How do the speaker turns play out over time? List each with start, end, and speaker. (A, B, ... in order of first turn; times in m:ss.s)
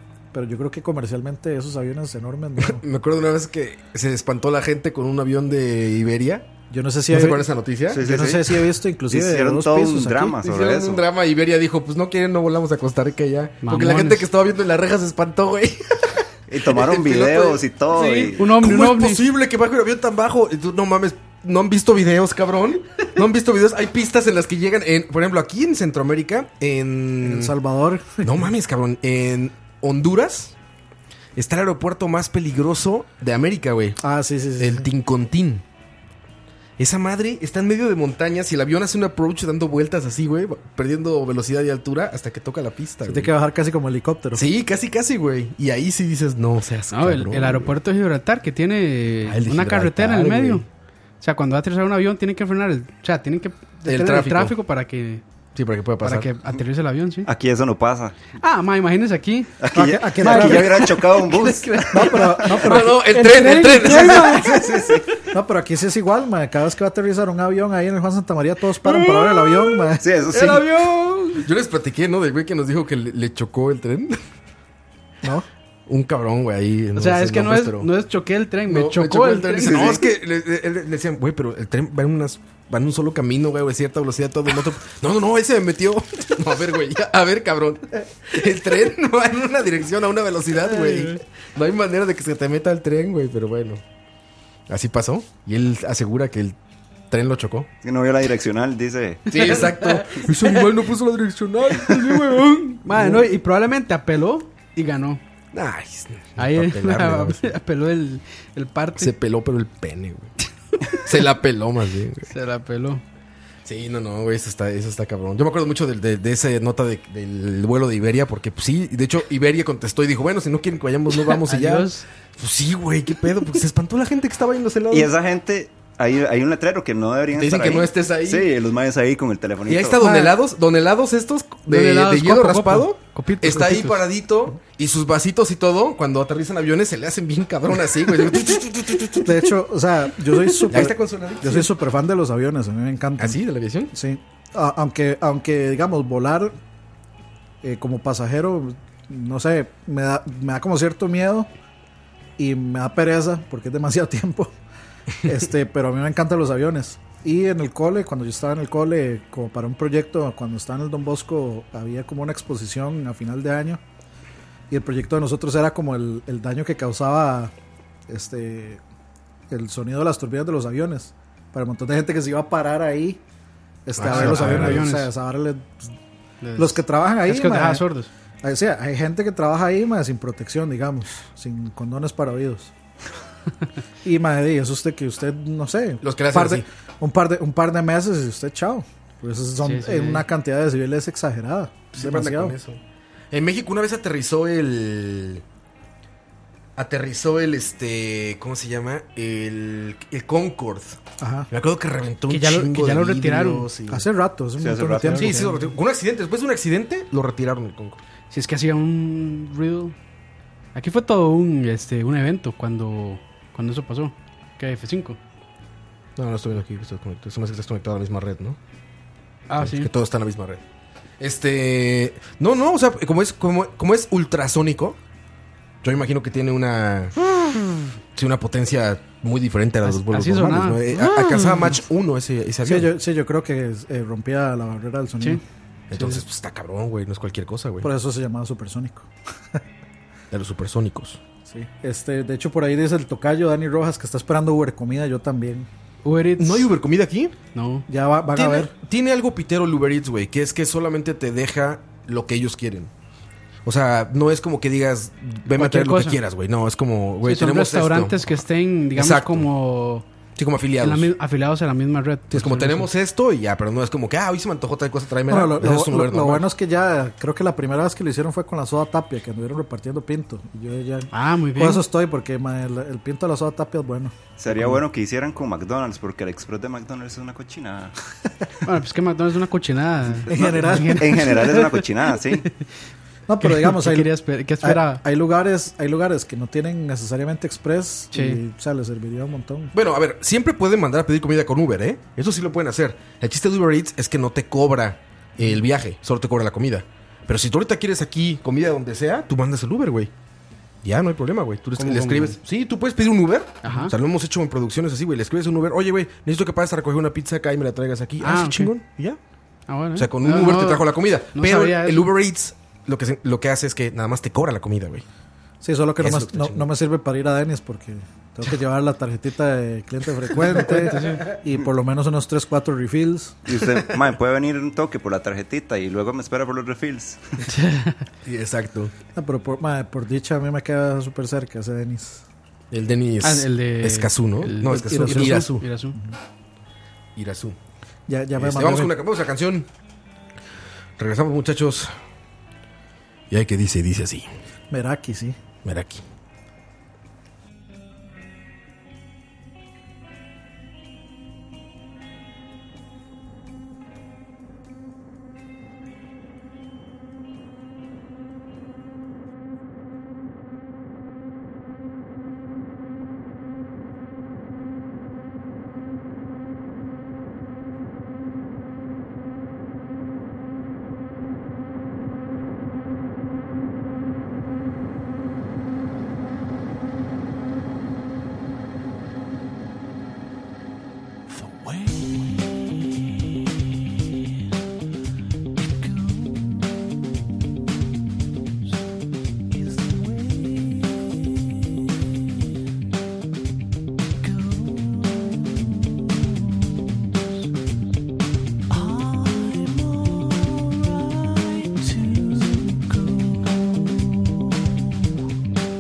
0:00.3-0:02.8 A
0:02.6-0:06.5 B
0:06.7-0:10.4 A
0:07.1-0:08.0 B
0:07.9-0:11.0 C
0:10.4-0:17.6 B
0:13.6-0:14.2 D
0:16.5-0:18.5 C
0:17.9-0:19.2 D
0:18.4-0:27.6 B
0:27.2-0:28.4 A
0:28.2-0:30.5 B
0:31.4-0:34.0 B
0:34.0-0:34.9 A
0:34.6-0:35.6 B
0:36.8-0:43.3 B
0:43.0-0:44.4 A
0:44.3-0:47.8 B
0:46.9-0:50.6 D
0:49.2-0:50.6 B
0:51.2-0:55.2 D
0:53.8-0:54.5 B
0:55.5-0:56.3 B
0:56.0-0:57.3 D
0:57.2-0:58.2 C
0:58.4-0:59.5 D
0:59.6-1:02.6 C
0:59.7-1:01.0 A
1:00.2-1:04.9 D
1:01.9-1:03.1 A
1:02.5-1:04.6 B
1:03.8-1:04.3 A
1:04.4-1:05.1 C
1:05.3-1:10.1 A
1:08.8-1:14.2 B
1:10.0-1:10.7 C
1:15.9-1:17.9 B
1:16.9-1:19.9 D
1:18.6-1:33.8 B
1:19.6-1:20.0 C
1:30.7-1:31.2 D
1:34.7-1:36.6 B
1:37.1-1:37.7 B
1:37.8-1:39.6 C
1:39.3-1:43.2 B
1:39.4-1:40.3 D
1:41.7-1:45.2 D
1:45.5-1:47.6 B
1:46.4-1:49.1 D
1:49.0-1:50.3 B
1:50.9-1:52.3 B
1:52.3-1:53.0 D
1:53.6-2:05.1 B
2:01.3-2:02.0 D
2:04.9-2:10.0 C
2:07.3-2:08.5 B
2:09.6-2:19.6 B
2:10.0-2:10.3 D
2:11.7-2:14.1 D
2:19.2-2:23.4 A
2:20.7-2:21.7 B
2:23.2-2:23.9 B
2:23.9-2:26.6 A
2:27.6-2:31.5 A
2:32.4-2:34.5 A
2:35.2-2:43.8 A
2:44.7-2:47.5 A
2:48.1-2:48.8 A
2:49.5-2:53.2 A
2:53.8-2:55.9 A
2:53.9-2:54.9 B
2:54.0-2:55.1 D
2:56.4-2:58.1 D
2:56.6-2:57.8 A
2:58.4-3:02.7 A
3:04.0-3:12.6 A
3:06.0-3:06.6 B
3:09.6-3:10.2 D
3:11.9-3:12.8 B
3:13.3-3:15.4 B
3:16.8-3:21.0 B
3:21.2-3:21.5 A
3:21.5-3:24.1 B
3:22.3-3:23.7 D
3:23.9-3:25.6 A
3:24.6-3:25.3 C
3:25.1-3:28.0 B
3:28.3-3:30.0 D
3:30.7-3:35.2 D
3:36.2-3:38.6 B
3:39.5-3:39.9 D
3:39.6-3:40.6 B
3:41.2-3:45.0 B
3:45.8-3:47.2 B
3:48.1-3:52.9 B
3:49.8-3:50.8 D
3:52.6-3:55.4 A
3:55.9-3:57.9 B
3:55.9-3:56.2 D
3:57.8-3:59.6 A
4:00.3-4:01.2 B
4:01.5-4:05.7 A
4:06.0-4:06.7 D
4:06.4-4:07.4 B
4:07.5-4:07.8 D
4:07.9-4:08.7 A
4:08.3-4:12.9 B
4:13.6-4:18.4 B
4:15.5-4:16.2 D
4:17.2-4:20.1 D
4:18.9-4:19.5 B
4:20.4-4:21.1 B
4:20.8-4:22.9 D
4:22.3-4:26.5 B
4:25.3-4:34.7 A
4:31.1-4:31.8 D
4:34.4-4:37.9 C
4:38.6-4:42.6 D
4:40.2-4:42.5 C
4:40.3-4:41.4 A
4:43.3-4:49.7 A
4:43.4-4:45.0 D
4:48.1-4:48.4 D
4:49.7-5:00.1 B
5:00.8-5:09.2 B
5:01.8-5:02.4 D
5:03.6-5:03.9 D
5:08.2-5:08.7 D
5:09.7-5:12.1 D
5:09.9-5:15.0 B
5:15.6-5:23.3 A
5:16.0-5:16.7 B
5:20.5-5:21.1 B
5:20.6-5:21.3 D
5:23.4-5:27.2 C
5:23.6-5:23.9 B
5:27.4-5:28.0 D
5:28.2-5:28.9 B
5:29.1-5:32.2 A
5:32.7-5:35.6 B
5:33.2-5:36.0 D
5:34.6-5:35.4 A
5:37.2-5:37.6 B
5:38.1-5:38.9 A
5:38.3-5:39.7 B
5:41.0-5:41.9 B
5:43.3-5:44.3 B
5:44.7-5:45.4 A
5:45.6-5:46.0 B
6:21.3-6:23.0 E
6:25.6-6:27.0 E
6:29.5-6:31.5 E
6:34.2-6:37.2 E
6:38.7-6:44.8 E